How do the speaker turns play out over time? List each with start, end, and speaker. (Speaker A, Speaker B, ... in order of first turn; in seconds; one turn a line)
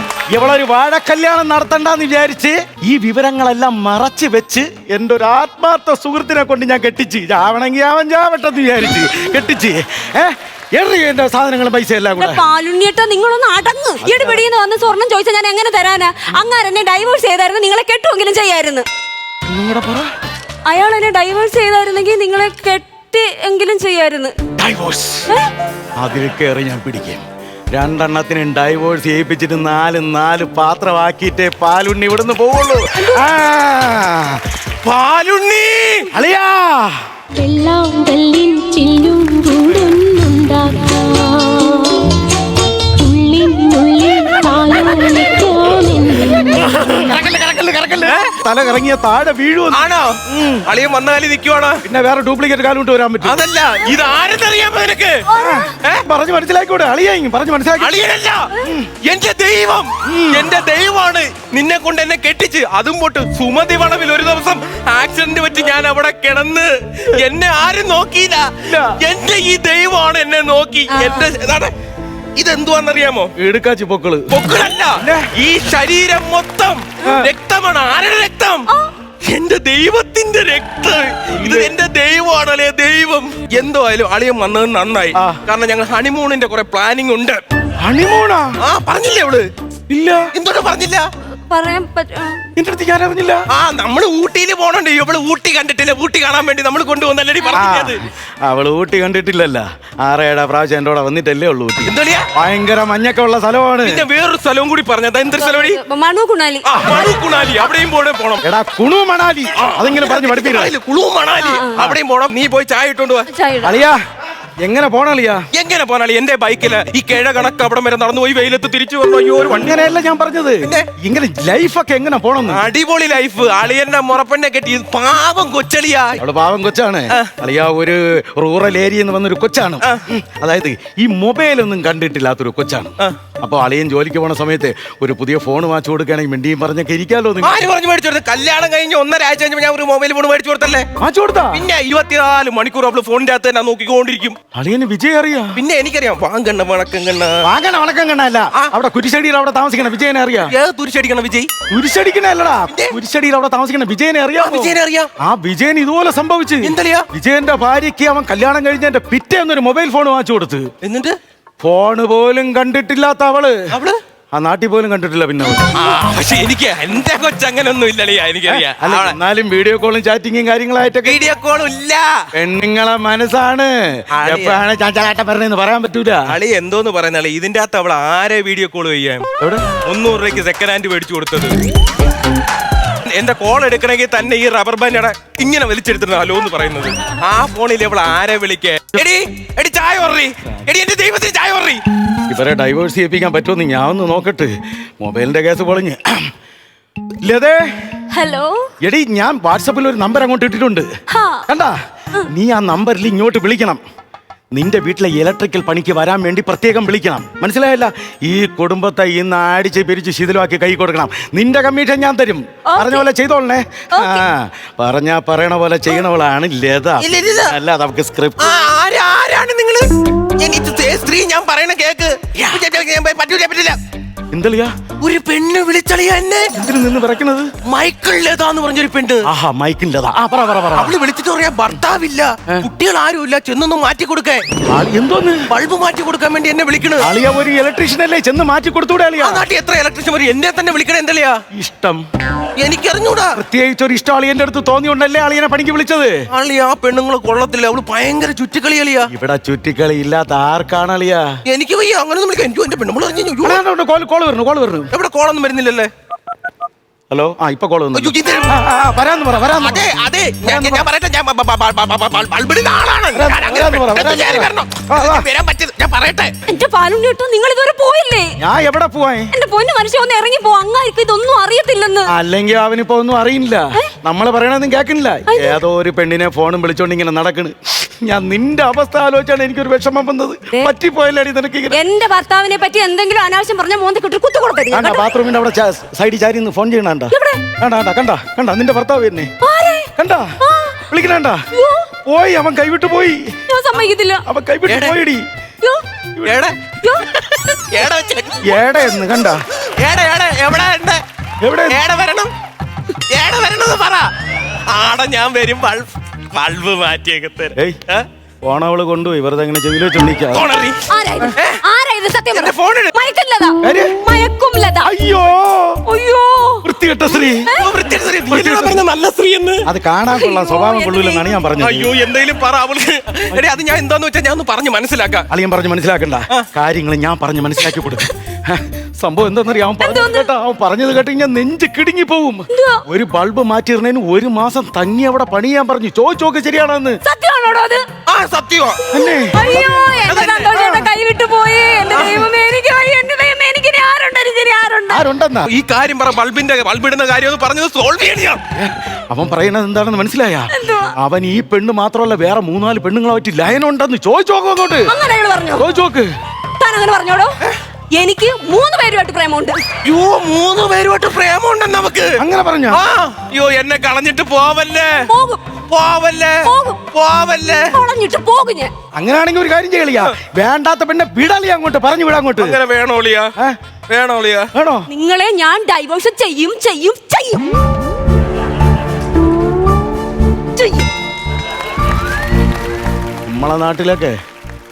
Speaker A: 0.3-12.4
Speaker B: 12.2-18.9
Speaker A: 14.0-14.5
Speaker A: 19.5-20.1
Speaker B: 20.7-24.3
Speaker A: 24.6-25.3
Speaker A: 26.0-34.4
Speaker B: 33.0-33.3
Speaker C: 34.8-36.1
Speaker A: 36.1-37.0
Speaker D: 37.3-42.2
Speaker D: 43.0-46.8
Speaker A: 46.8-50.7
Speaker C: 48.0-48.4
Speaker C: 49.7-51.8
Speaker A: 51.9-53.4
Speaker C: 53.2-55.2
Speaker B: 55.3-55.7
Speaker A: 55.4-58.0
Speaker C: 57.8-58.5
Speaker A: 58.6-58.9
Speaker C: 59.0-71.7
Speaker A: 60.1-60.5
Speaker A: 68.7-68.9
Speaker C: 72.4-73.3
Speaker A: 73.4-74.3
Speaker C: 74.3-78.7
Speaker A: 75.0-75.3
Speaker A: 77.0-77.3
Speaker C: 79.2-87.4
Speaker A: 81.3-81.7
Speaker A: 85.2-85.4
Speaker A: 87.8-88.5
Speaker C: 88.6-89.5
Speaker A: 89.9-90.3
Speaker C: 90.3-91.1
Speaker B: 91.5-92.4
Speaker A: 92.6-93.4
Speaker C: 93.5-98.0
Speaker A: 97.5-104.1
Speaker C: 101.8-102.3
Speaker C: 103.8-105.8
Speaker B: 105.4-106.7
Speaker C: 106.7-108.4
Speaker A: 108.4-110.7
Speaker C: 109.5-113.3
Speaker B: 111.4-111.9
Speaker B: 113.3-113.8
Speaker A: 113.6-114.0
Speaker A: 114.6-115.4
Speaker C: 115.5-119.7
Speaker A: 119.5-122.6
Speaker C: 120.6-120.9
Speaker C: 122.5-126.2
Speaker A: 126.2-137.6
Speaker C: 137.4-140.9
Speaker A: 141.0-141.7
Speaker C: 141.5-144.4
Speaker A: 144.5-145.6
Speaker C: 145.6-147.5
Speaker A: 147.4-150.5
Speaker C: 150.5-151.5
Speaker A: 151.7-160.7
Speaker C: 154.4-155.1
Speaker C: 156.6-157.1
Speaker C: 160.8-161.1
Speaker A: 161.6-163.6
Speaker C: 163.7-164.0
Speaker A: 164.3-165.7
Speaker C: 165.7-169.2
Speaker A: 168.5-171.2
Speaker C: 171.0-172.1
Speaker A: 172.3-176.4
Speaker C: 174.1-174.7
Speaker C: 176.3-179.3
Speaker A: 179.4-179.7
Speaker C: 179.8-181.6
Speaker C: 183.1-191.8
Speaker A: 192.3-196.3
Speaker A: 197.2-197.7
Speaker B: 198.1-198.7
Speaker A: 198.8-200.9
Speaker B: 201.1-201.5
Speaker A: 201.5-201.8
Speaker A: 202.3-203.8
Speaker A: 204.5-218.5
Speaker B: 212.7-213.1
Speaker B: 213.9-214.2
Speaker C: 217.0-217.6
Speaker C: 218.4-223.8
Speaker A: 224.3-224.7
Speaker C: 225.0-226.5
Speaker A: 226.6-227.5
Speaker C: 227.7-229.2
Speaker A: 229.3-231.0
Speaker C: 230.8-234.4
Speaker A: 234.7-235.5
Speaker C: 235.5-237.1
Speaker A: 237.0-239.5
Speaker C: 239.2-241.4
Speaker A: 241.5-242.0
Speaker C: 242.6-243.4
Speaker A: 243.3-246.2
Speaker C: 246.3-249.1
Speaker A: 249.1-251.3
Speaker C: 251.5-253.6
Speaker A: 253.4-254.9
Speaker C: 254.9-255.9
Speaker A: 257.1-259.9
Speaker C: 257.9-258.6
Speaker C: 259.6-266.3
Speaker A: 260.4-260.9
Speaker A: 263.1-265.3
Speaker B: 266.5-268.3
Speaker A: 268.4-269.3
Speaker B: 269.3-272.1
Speaker A: 272.1-281.8
Speaker B: 275.3-275.6
Speaker B: 281.7-285.1
Speaker A: 284.7-289.3
Speaker B: 287.1-287.4
Speaker B: 289.4-289.9
Speaker A: 290.0-290.3
Speaker B: 290.4-290.8
Speaker A: 290.9-291.4
Speaker B: 291.5-291.9
Speaker A: 292.1-293.3
Speaker B: 293.5-294.2
Speaker A: 294.3-295.2
Speaker C: 294.7-295.0
Speaker A: 296.2-296.4
Speaker C: 296.2-296.6
Speaker B: 296.8-297.1
Speaker C: 297.3-298.7
Speaker A: 298.4-299.4
Speaker C: 299.8-301.0
Speaker A: 301.4-301.8
Speaker C: 301.7-302.3
Speaker C: 303.1-304.1
Speaker C: 304.7-308.1
Speaker A: 308.4-310.5
Speaker C: 310.3-310.8
Speaker B: 310.9-314.9
Speaker C: 311.3-311.6
Speaker C: 312.3-312.9
Speaker A: 313.6-314.0
Speaker A: 314.8-315.8
Speaker B: 315.9-317.7
Speaker A: 316.6-317.5
Speaker C: 317.6-319.6
Speaker A: 318.3-318.8
Speaker A: 319.6-321.9
Speaker B: 320.1-321.3
Speaker C: 321.6-325.3
Speaker A: 325.3-337.0
Speaker B: 329.8-330.3
Speaker B: 332.5-332.8
Speaker B: 337.0-337.9
Speaker C: 338.1-338.8
Speaker A: 338.9-340.9
Speaker B: 338.9-345.0
Speaker C: 340.1-340.5
Speaker C: 341.9-342.2
Speaker A: 344.9-345.5
Speaker C: 345.5-348.4
Speaker A: 348.6-354.9
Speaker B: 350.5-350.9
Speaker B: 354.9-355.7
Speaker A: 355.6-356.1
Speaker B: 356.6-357.4
Speaker B: 357.9-359.6
Speaker C: 359.8-362.2
Speaker A: 362.2-362.8
Speaker C: 362.7-365.1
Speaker B: 365.1-365.4
Speaker C: 365.7-367.7
Speaker B: 366.4-366.8
Speaker B: 367.7-368.7
Speaker A: 369.0-372.6
Speaker C: 372.4-373.3
Speaker C: 373.9-374.5
Speaker A: 374.6-374.9
Speaker B: 374.9-377.5
Speaker B: 380.6-380.9
Speaker A: 383.3-384.2